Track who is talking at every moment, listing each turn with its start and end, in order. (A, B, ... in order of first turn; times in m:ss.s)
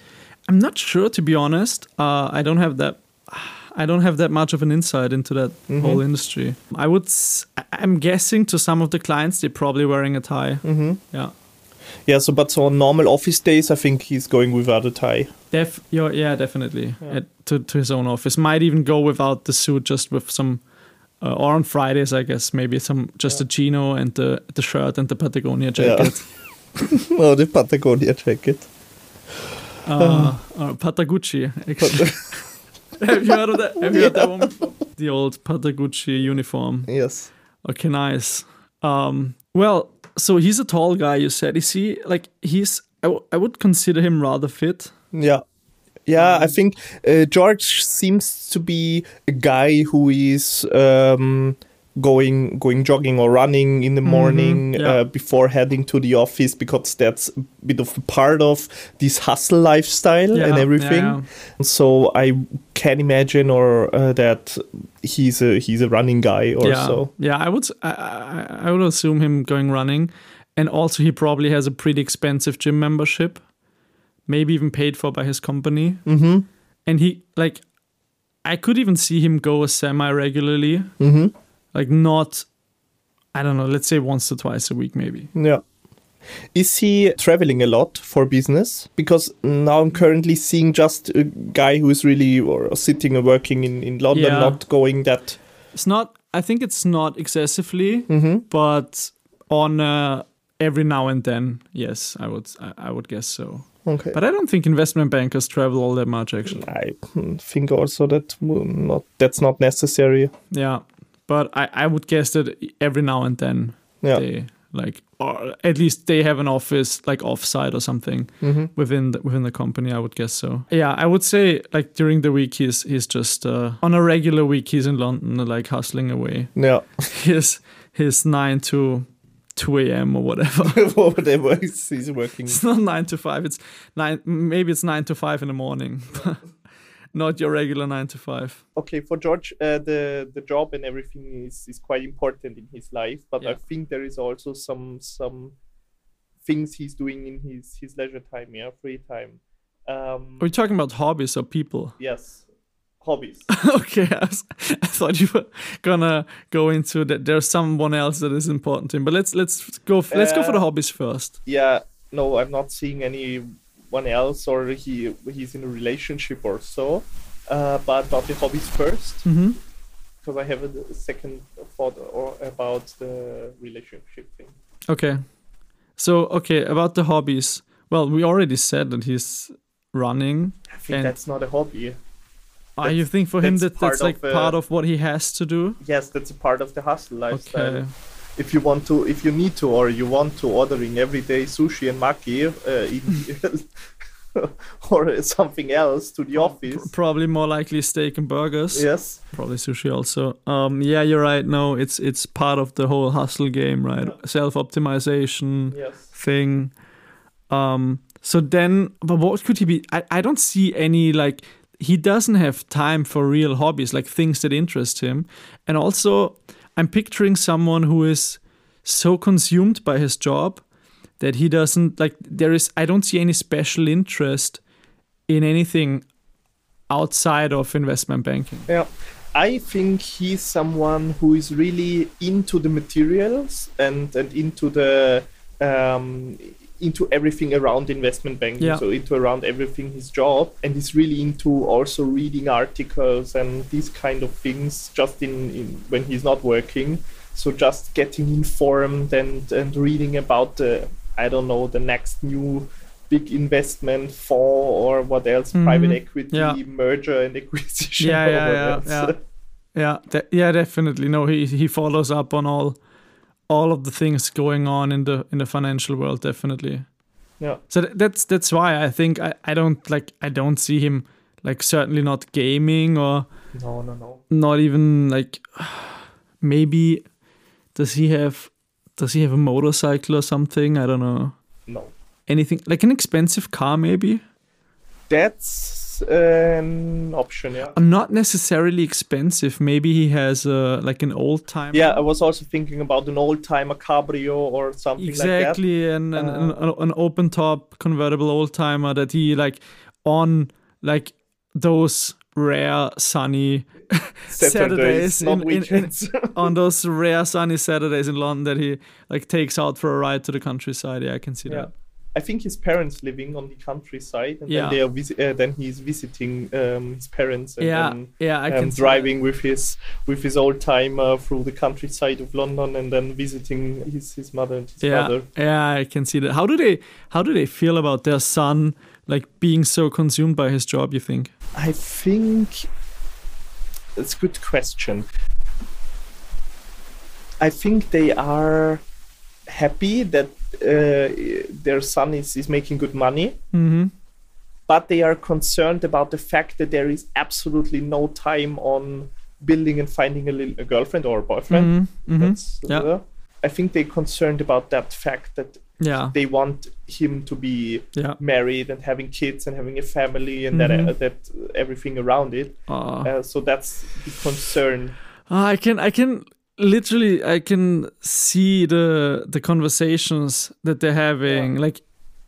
0:00.5-0:11.3 A
0:05.7-0:06.0 B
0:10.6-0:11.0 B
0:12.1-0:15.3 B
0:15.5-0:20.6 A
0:21.2-0:26.2 A
0:25.8-0:26.2 B
0:26.8-0:28.7 B
0:29.8-0:32.4 A
0:30.0-0:30.3 B
0:31.8-0:32.3 B
0:33.0-0:36.9 A
0:33.8-0:34.7 B
0:36.9-0:37.3 B
0:37.6-0:44.9 A
0:45.1-0:45.4 B
0:46.1-1:07.1 B
0:46.2-0:46.5 A
0:54.0-0:55.0 A
1:00.3-1:01.3 A
1:06.6-1:13.4 A
1:14.3-1:16.0 A
1:16.1-1:16.5 B
1:16.9-1:17.6 A
1:18.4-1:20.9 A
1:21.0-1:21.3 B
1:21.7-1:22.5 A
1:23.3-1:25.3 A
1:25.4-1:25.6 B
1:26.5-1:35.4 B
1:34.1-1:34.6 A
1:35.7-1:46.7 A
1:38.1-1:38.4 B
1:43.9-1:44.2 B
1:46.5-1:50.3 B
1:50.5-2:06.5 A
1:58.4-1:58.7 B
2:06.6-2:07.0 B
2:07.1-2:10.9 A
2:10.6-2:12.6 B
2:12.5-2:16.4 A
2:17.1-2:18.6 A
2:18.8-2:25.6 B
2:26.4-2:30.4 B
2:30.4-2:32.0 A
2:32.0-2:32.4 B
2:33.0-2:33.5 B
2:33.5-2:41.4 A
2:40.1-2:40.6 B
2:41.5-2:49.2 B
2:49.2-2:49.6 A
2:50.2-2:54.5 B
2:54.9-2:55.2 A
2:56.0-3:01.1 A
3:00.8-3:02.0 B
3:02.8-3:05.8 A
3:02.8-3:04.6 B
3:05.8-3:07.8 B
3:07.3-3:07.9 A
3:08.4-3:16.9 B
3:16.4-3:26.7 A
3:18.7-3:19.2 B
3:25.7-3:26.0 B
3:27.5-3:40.6 A
3:41.2-3:44.6 A
3:45.3-3:46.1 A
3:46.9-3:48.7 A
3:48.7-4:19.2 B
4:15.5-4:16.6 A
4:18.0-4:19.2 A
4:19.8-4:22.8 A
4:23.5-4:26.9 A
4:27.7-4:33.3 A
4:33.5-4:34.2 B
4:34.3-4:37.0 A
4:37.8-4:41.4 A
4:41.7-4:41.9 B
4:42.3-4:44.2 A
4:45.1-4:47.8 B
4:47.7-4:52.0 A
4:51.7-4:55.6 B
4:55.0-5:11.7 A
4:56.2-4:56.6 B
5:04.3-5:06.5 B
5:11.5-5:25.3 B
5:14.5-5:14.8 A
5:17.6-5:19.1 A
5:24.8-5:31.3 A
5:31.6-5:32.7 B
5:34.0-5:35.1 B
5:37.4-5:38.8 B
5:39.5-5:43.4 B
5:43.5-5:43.9 A
5:44.7-6:05.0 B
5:51.5-5:52.9 A
5:55.8-5:56.2 A
6:00.5-6:00.9 A
6:02.7-6:03.1 A
6:05.3-6:11.8 A